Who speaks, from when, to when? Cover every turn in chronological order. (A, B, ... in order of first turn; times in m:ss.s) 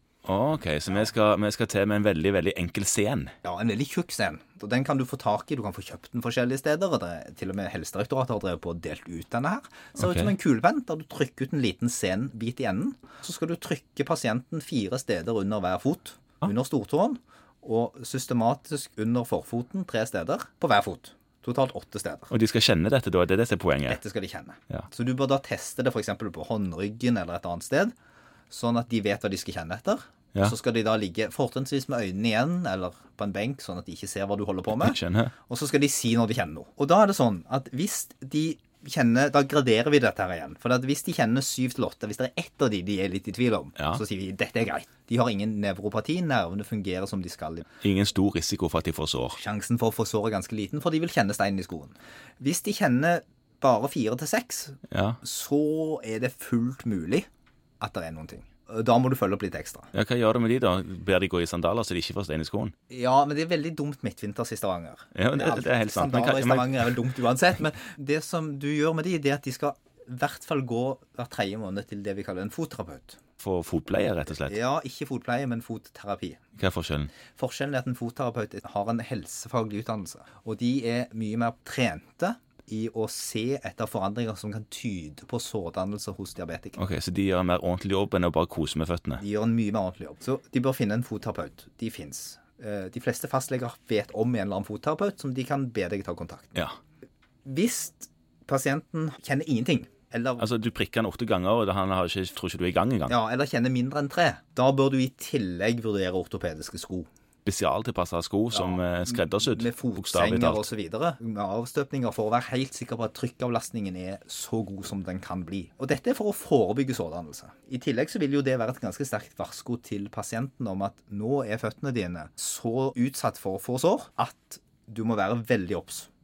0:00.2-0:03.3 A
0:03.4-0:22.3 B
0:10.0-0:10.3 A
0:22.3-0:24.0 A
0:23.9-0:27.9 B
0:28.5-0:47.6 B
0:34.7-0:35.3 A
0:47.8-0:49.4 A
0:49.4-0:57.3 B
0:54.9-0:55.2 A
0:57.8-0:59.9 B
0:59.9-1:02.7 A
1:02.9-1:13.2 B
1:05.1-1:06.9 A
1:13.4-1:14.6 A
1:14.4-1:16.4 B
1:16.6-1:17.1 A
1:17.3-1:26.8 B
1:26.8-1:29.2 A
1:29.2-1:36.6 B
1:37.4-1:40.4 B
1:40.4-1:43.1 A
1:43.1-1:47.1 B
1:47.4-1:50.7 A
1:48.5-2:06.1 B